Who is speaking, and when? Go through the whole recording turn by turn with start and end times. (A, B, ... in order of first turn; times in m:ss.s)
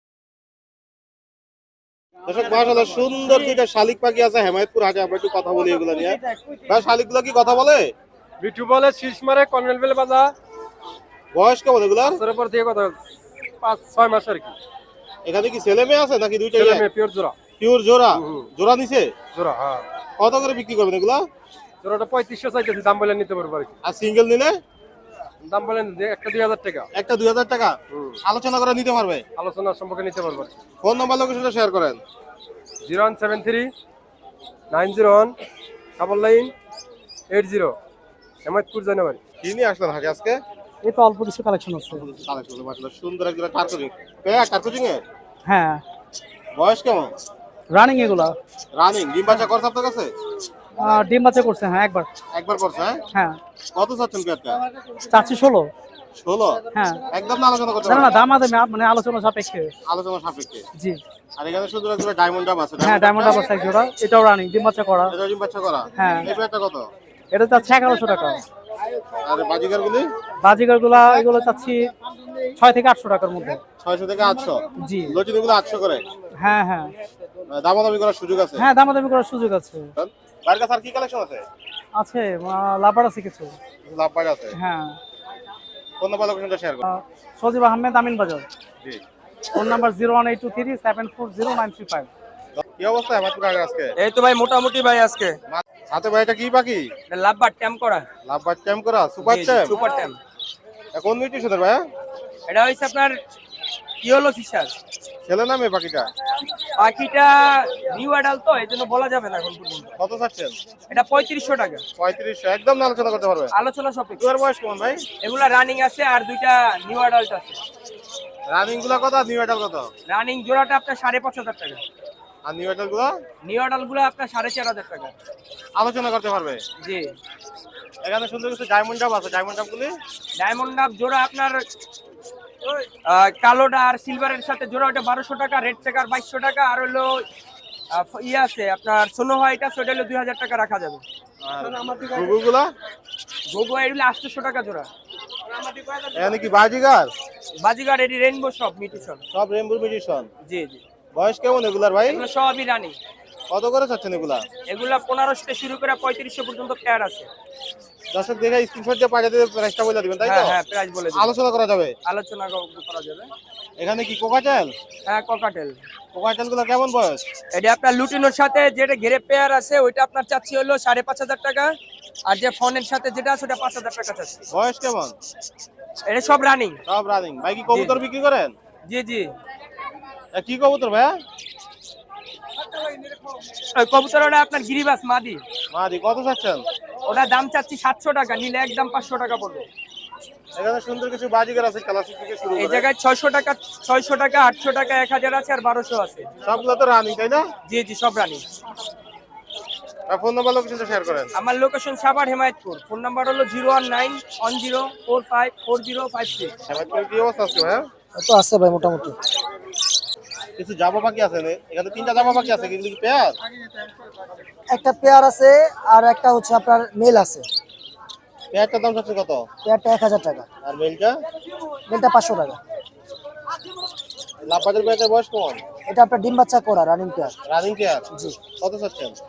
0:02.3-0:07.9 A
0:08.4-0:10.3 B
0:11.3-0:12.2 A
0:12.0-0:13.0 B
0:13.6-0:14.5 B
0:15.2-0:16.9 A
0:16.5-0:17.3 B
0:17.6-0:19.1 A
0:18.1-0:18.5 B
0:19.3-0:19.8 B
0:20.2-0:21.2 A
0:21.8-0:23.7 B
0:23.8-0:24.6 A
0:25.4-0:26.9 B
0:26.9-0:29.2 A
0:29.4-0:30.5 B
0:30.8-0:32.0 A
0:32.9-0:33.7 B
0:34.7-0:35.3 B
0:36.0-0:36.5 B
0:37.3-0:37.7 B
0:38.4-0:39.2 B
0:39.4-0:40.4 A
0:40.8-0:42.0 C
0:41.9-0:45.0 A
0:45.4-0:45.8 C
0:46.6-0:47.1 A
0:47.7-0:48.4 C
0:48.8-0:50.1 A
0:50.8-0:52.1 C
0:52.3-0:53.0 A
0:53.1-0:53.4 C
0:53.7-0:54.6 A
0:55.1-0:55.7 C
0:56.2-0:56.6 A
0:56.7-0:57.0 C
0:57.1-0:58.1 A
0:57.8-0:59.7 C
0:59.9-1:00.6 A
1:00.7-1:01.0 C
1:01.4-1:03.6 A
1:02.8-1:05.1 C
1:05.1-1:06.9 A
1:06.0-1:06.3 C
1:07.3-1:08.4 C
1:09.2-1:10.1 A
1:10.4-1:11.9 C
1:12.6-1:13.6 C
1:13.8-1:16.0 A
1:14.8-1:15.2 C
1:16.4-1:16.9 C
1:17.5-1:18.7 A
1:18.5-1:19.9 C
1:20.0-1:21.4 A
1:22.0-1:23.6 C
1:23.8-1:24.5 A
1:24.5-1:25.0 C
1:26.0-1:26.8 A
1:26.8-1:28.4 C
1:29.5-1:32.1 C
1:32.6-1:33.9 A
1:34.0-1:35.4 D
1:35.5-1:36.9 A
1:37.1-1:38.0 D
1:38.2-1:39.7 A
1:39.2-1:40.2 D
1:40.9-1:41.8 A
1:42.5-1:43.2 D
1:44.0-1:44.7 D
1:45.3-1:46.0 A
1:46.8-1:49.9 D
1:50.0-1:50.5 A
1:50.9-1:51.8 D
1:52.0-1:53.5 A
1:53.5-1:54.3 D
1:54.2-1:55.0 A
1:55.2-1:57.6 D
1:58.5-1:59.9 A
2:00.1-2:01.8 D
2:02.4-2:03.1 A
2:03.4-2:05.1 D
2:05.8-2:06.6 A
2:06.8-2:07.1 D
2:08.0-2:09.9 A
2:10.4-2:11.6 D
2:12.6-2:17.2 D
2:17.9-2:21.0 D
2:21.4-2:22.6 A
2:23.5-2:24.9 D
2:25.8-2:26.0 D
2:26.2-2:27.1 A
2:27.6-2:29.2 D
2:29.3-2:30.3 A
2:30.4-2:30.8 D
2:31.1-2:32.2 A
2:32.0-2:33.0 D
2:33.5-2:34.4 A
2:34.7-2:37.3 D
2:38.1-2:40.6 A
2:40.2-2:41.4 D
2:41.1-2:41.9 A
2:42.0-2:43.3 D
2:43.8-2:44.7 A
2:45.0-2:45.8 D
2:46.1-2:47.2 A
2:47.5-2:51.7 D
2:52.2-2:54.4 D
2:54.5-2:55.1 A
2:56.1-2:56.8 D
2:56.9-2:58.5 A
2:57.7-2:58.0 D
2:58.8-2:59.3 D
3:00.3-3:01.2 A
3:03.7-3:05.4 D
3:05.7-3:06.6 A
3:07.1-3:09.6 D
3:10.5-3:12.9 A
3:12.5-3:16.3 D
3:16.4-3:17.4 A
3:17.7-3:18.4 D
3:20.1-3:21.3 A
3:21.3-3:26.5 D
3:26.7-3:27.8 A
3:28.2-3:29.1 E
3:30.6-3:33.4 A
3:34.7-3:37.4 E
3:38.5-3:39.4 A
3:39.6-3:40.4 E
3:40.6-3:41.2 A
3:41.9-3:42.6 E
3:44.4-3:45.6 A
3:45.9-3:47.3 E
3:47.5-3:48.0 A
3:48.1-3:48.4 E
3:48.6-3:49.2 A